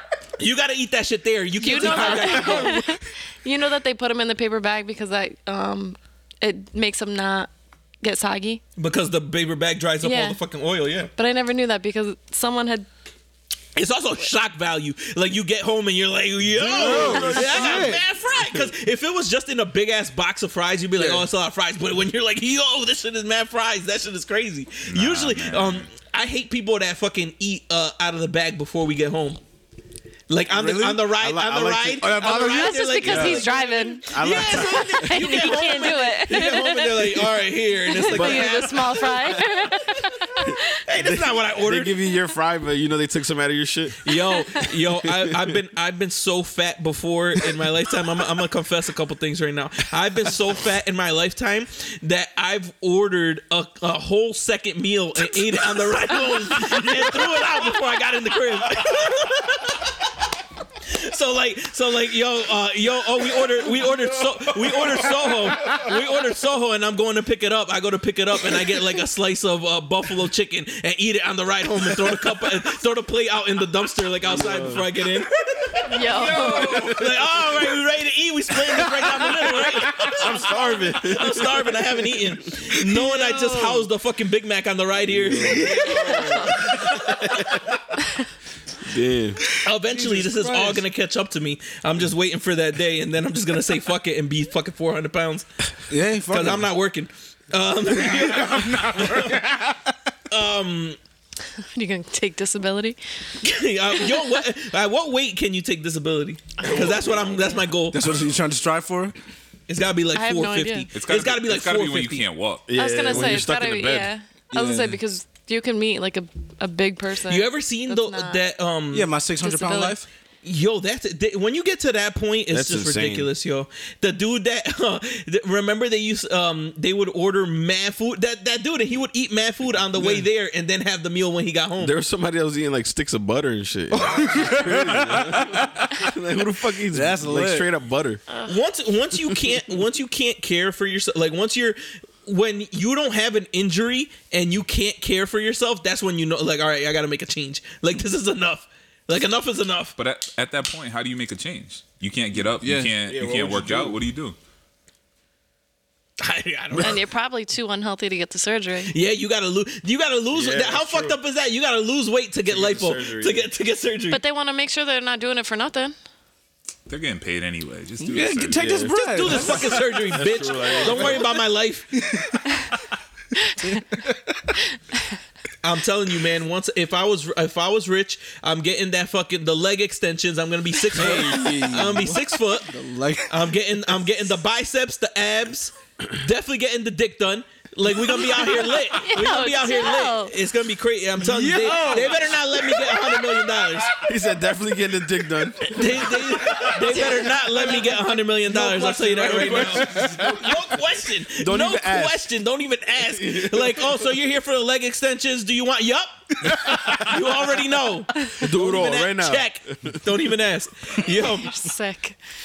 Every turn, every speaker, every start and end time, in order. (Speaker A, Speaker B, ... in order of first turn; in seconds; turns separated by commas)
Speaker A: 0.4-2.9, Speaker B: 1.5-7.5, Speaker C: 1.7-2.6, Speaker B: 8.0-8.6, Speaker A: 8.8-11.1, Speaker B: 10.0-10.4, Speaker B: 11.2-12.9, Speaker A: 13.7-29.4, Speaker D: 16.5-18.7, Speaker C: 16.7-18.0, Speaker B: 17.2-17.5, Speaker C: 20.9-21.2, Speaker E: 24.9-25.9, Speaker A: 30.3-39.6, Speaker C: 30.5-31.1, Speaker D: 31.1-32.5, Speaker C: 32.0-33.5, Speaker B: 32.3-40.8, Speaker D: 33.0-33.5, Speaker D: 34.0-35.5, Speaker D: 38.0-38.7, Speaker A: 40.9-42.0, Speaker D: 41.0-44.1, Speaker A: 44.0-59.8, Speaker D: 44.9-45.5, Speaker A: 60.8-87.5, Speaker D: 74.2-74.9, Speaker B: 75.9-77.0, Speaker D: 76.4-77.4, Speaker D: 79.9-81.9, Speaker B: 83.2-83.7, Speaker D: 85.0-87.6, Speaker B: 86.2-86.5, Speaker D: 88.8-89.4, Speaker A: 89.6-95.5, Speaker C: 89.9-90.8, Speaker C: 95.9-96.7, Speaker A: 96.3-99.4, Speaker C: 98.0-99.9, Speaker A: 100.3-101.0, Speaker B: 101.7-103.0, Speaker A: 103.4-108.0, Speaker D: 106.6-107.4, Speaker C: 107.9-109.1, Speaker A: 109.7-112.2, Speaker B: 110.1-110.9, Speaker E: 110.9-112.7, Speaker D: 112.7-114.1, Speaker B: 112.7-118.4, Speaker C: 114.5-115.0, Speaker A: 117.3-119.1, Speaker C: 118.9-120.0, Speaker B: 119.4-120.0, Speaker A: 120.4-131.9, Speaker D: 122.5-123.3, Speaker C: 130.0-130.2, Speaker D: 131.8-138.2, Speaker C: 134.0-136.0, Speaker C: 136.9-137.7, Speaker A: 138.4-149.9, Speaker E: 150.0-154.3, Speaker C: 152.6-152.9, Speaker D: 153.0-154.0, Speaker A: 156.2-157.1, Speaker B: 156.8-158.9, Speaker A: 158.9-164.2, Speaker D: 160.3-161.2, Speaker D: 162.4-163.5, Speaker B: 164.1-165.9, Speaker E: 166.9-168.8, Speaker C: 168.0-169.8, Speaker D: 168.5-171.3, Speaker A: 168.9-171.9, Speaker C: 171.9-172.5, Speaker C: 173.6-174.5, Speaker A: 175.6-182.7, Speaker C: 180.9-183.3, Speaker A: 183.3-194.0, Speaker B: 188.2-190.3, Speaker C: 191.2-192.4, Speaker D: 194.0-195.9, Speaker A: 195.6-211.6, Speaker C: 198.4-200.3, Speaker D: 199.2-200.6, Speaker D: 201.3-202.3, Speaker D: 203.0-204.0, Speaker C: 206.4-207.1, Speaker D: 208.3-210.0, Speaker B: 211.2-212.2